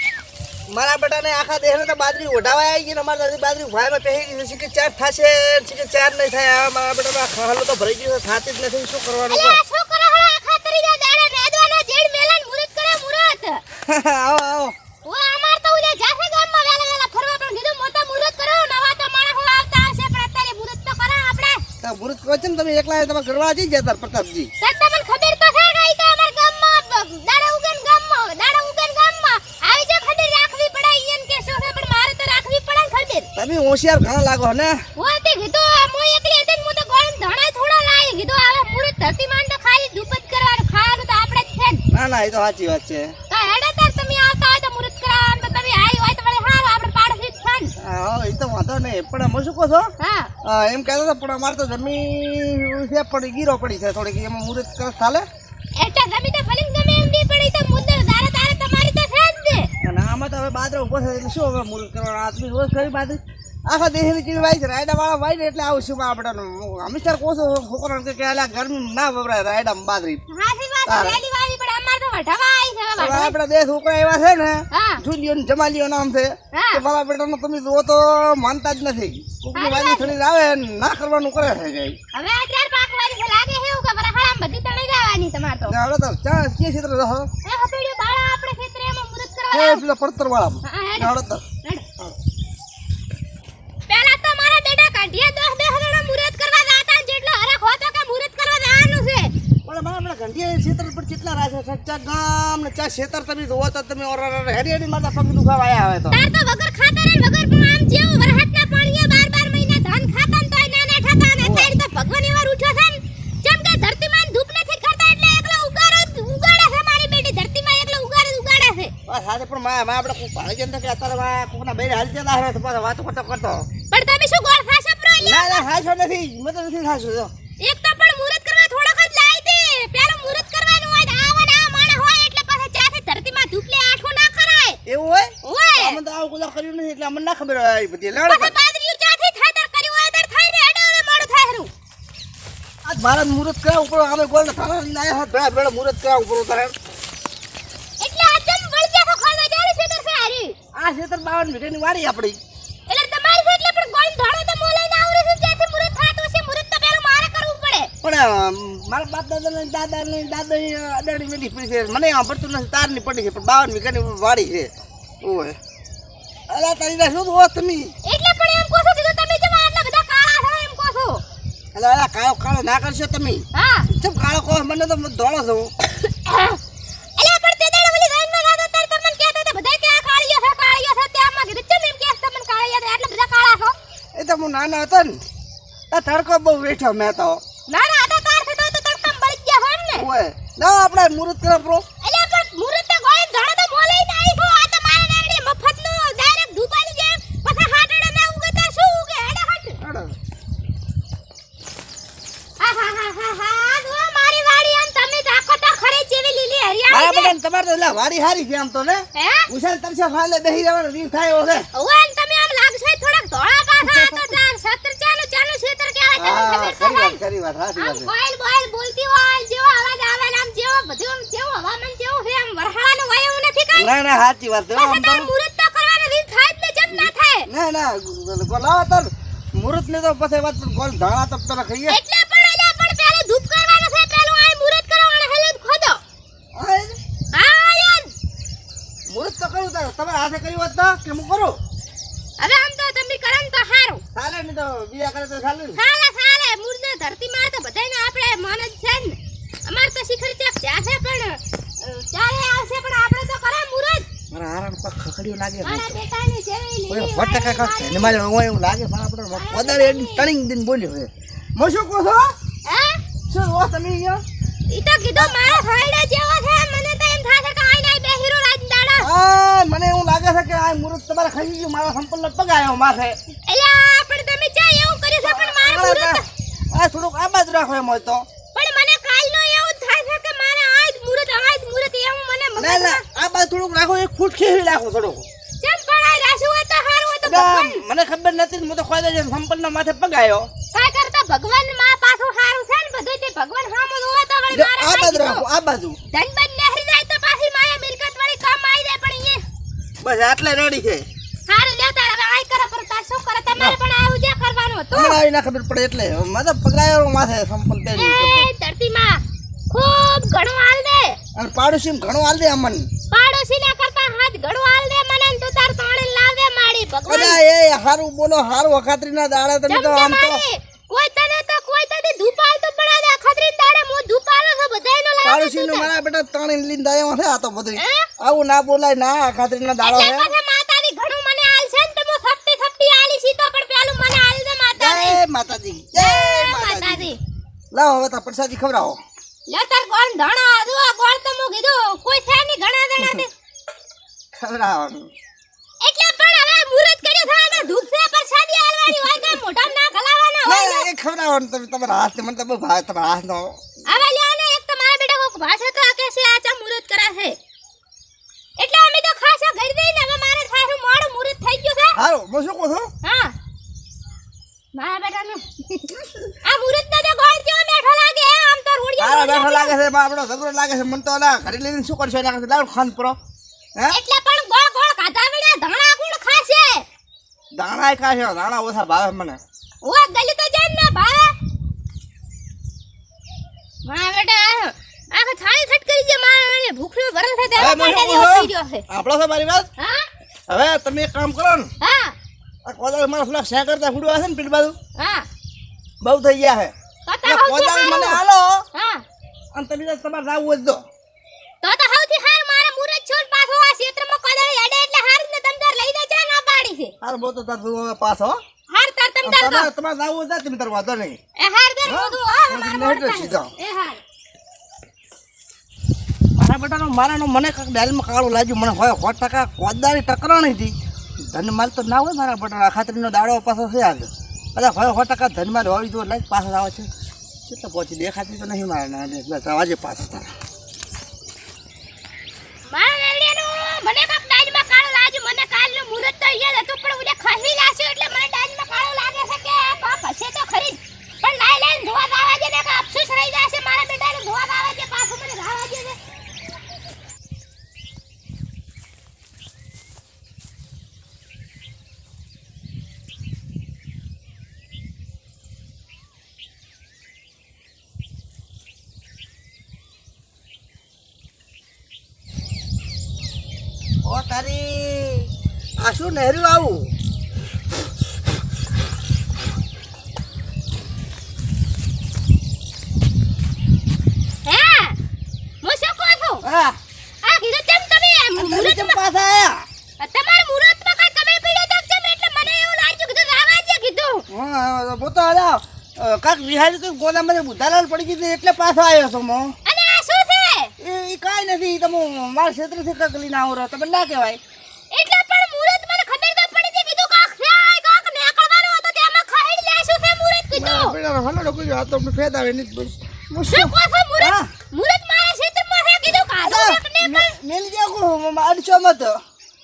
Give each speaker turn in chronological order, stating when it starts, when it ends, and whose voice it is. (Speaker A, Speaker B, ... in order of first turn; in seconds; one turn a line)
Speaker A: 0.7-9.6
Speaker B: 9.3-13.6
Speaker A: 13.9-14.7
Speaker B: 15.0-21.6
Speaker A: 21.8-24.5
Speaker B: 24.6-33.3
Speaker A: 33.4-34.8
Speaker B: 35.0-41.8
Speaker A: 41.9-43.1
Speaker B: 43.3-47.7
Speaker A: 47.8-49.9
Speaker B: 50.0-50.3
Speaker A: 50.4-55.2
Speaker B: 55.8-59.7
Speaker A: 59.8-70.2
Speaker B: 70.3-73.3
Speaker A: 70.9-71.2
Speaker A: 73.0-82.0
Speaker B: 74.7-75.0
Speaker B: 76.5-76.8
Speaker B: 79.5-80.2
Speaker B: 82.1-85.8
Speaker A: 85.7-87.3
Speaker B: 87.5-89.8
Speaker A: 89.5-91.4
Speaker B: 90.6-91.8
Speaker B: 93.9-99.3
Speaker A: 99.7-106.2
Speaker B: 106.1-118.9
Speaker A: 111.4-111.8
Speaker A: 119.1-123.7
Speaker B: 123.9-125.7
Speaker A: 125.2-127.3
Speaker B: 127.6-134.8
Speaker A: 134.9-138.6
Speaker B: 135.4-136.0
Speaker B: 138.2-141.7
Speaker A: 142.8-146.8
Speaker B: 148.0-150.6
Speaker A: 150.8-152.4
Speaker B: 152.9-157.9
Speaker A: 158.0-165.6
Speaker A: 166.5-167.9
Speaker B: 168.1-171.2
Speaker A: 171.8-175.7
Speaker B: 173.5-173.9
Speaker B: 176.2-176.6
Speaker B: 177.2-183.8
Speaker A: 184.2-185.2
Speaker A: 185.9-187.4
Speaker B: 187.7-190.1
Speaker A: 189.9-191.8
Speaker B: 192.0-199.8
Speaker A: 199.8-200.2
Speaker B: 202.6-207.3
Speaker A: 206.9-211.7
Speaker B: 209.2-209.5
Speaker B: 211.7-217.2
Speaker A: 213.9-214.2
Speaker A: 216.2-218.1
Speaker B: 217.8-223.9
Speaker A: 223.8-225.3
Speaker B: 224.7-227.5
Speaker A: 227.0-232.0
Speaker B: 231.9-236.0
Speaker A: 236.6-237.0
Speaker B: 237.3-238.1
Speaker A: 239.1-241.6
Speaker B: 242.4-244.0
Speaker A: 244.2-245.8
Speaker B: 245.8-254.1
Speaker A: 254.3-256.0
Speaker B: 255.6-258.2
Speaker A: 256.9-262.3
Speaker B: 259.3-260.3
Speaker B: 262.7-263.0
Speaker A: 263.3-264.2
Speaker B: 264.7-269.1
Speaker A: 265.2-265.7
Speaker A: 269.0-273.2
Speaker B: 273.5-276.3
Speaker A: 275.2-278.2
Speaker B: 278.5-283.0
Speaker A: 282.6-285.2
Speaker B: 285.6-287.8
Speaker A: 287.2-290.5
Speaker B: 290.7-295.4
Speaker A: 294.5-296.0
Speaker B: 296.1-299.4
Speaker A: 300.0-301.1
Speaker B: 301.5-305.2
Speaker A: 304.9-308.5
Speaker B: 307.9-311.2
Speaker A: 311.4-312.9
Speaker B: 313.1-317.4
Speaker A: 317.1-320.4
Speaker B: 319.7-325.9
Speaker A: 325.2-330.3
Speaker B: 327.8-328.1
Speaker B: 329.8-335.2
Speaker A: 334.8-337.1
Speaker B: 335.9-337.2
Speaker A: 337.7-339.0
Speaker B: 339.5-343.3
Speaker A: 344.3-345.1
Speaker B: 345.8-350.9
Speaker A: 350.5-353.6
Speaker B: 353.9-357.4
Speaker B: 358.6-362.0
Speaker A: 362.0-362.9
Speaker B: 363.0-363.3
Speaker B: 364.8-369.7
Speaker A: 369.0-373.2
Speaker B: 373.9-376.8
Speaker A: 377.6-379.4
Speaker B: 379.8-381.4
Speaker B: 383.9-388.8
Speaker A: 387.6-389.7
Speaker B: 389.8-390.1
Speaker A: 390.5-391.7
Speaker B: 391.8-392.2
Speaker A: 392.6-394.8
Speaker B: 395.0-395.3
Speaker A: 396.0-396.7
Speaker B: 397.1-398.2
Speaker A: 397.2-398.6
Speaker B: 398.7-399.0
Speaker A: 399.6-400.8
Speaker B: 401.6-406.9
Speaker A: 407.0-408.4
Speaker B: 408.7-409.7
Speaker A: 409.2-411.2
Speaker B: 411.4-414.0
Speaker A: 411.9-413.5
Speaker A: 416.4-420.7
Speaker A: 421.3-426.9
Speaker A: 427.5-430.3
Speaker B: 432.7-446.0
Speaker A: 464.1-465.3
Speaker A: 465.8-466.9
Speaker B: 474.4-475.0
Speaker B: 475.6-476.4
Speaker A: 476.4-476.8
Speaker B: 477.2-479.0
Speaker A: 478.4-479.6
Speaker B: 480.0-484.2
Speaker A: 484.3-489.5
Speaker B: 489.7-490.7
Speaker A: 490.8-494.4
Speaker B: 494.9-501.0
Speaker A: 500.6-504.5
Speaker B: 503.5-507.3
Speaker A: 506.4-509.2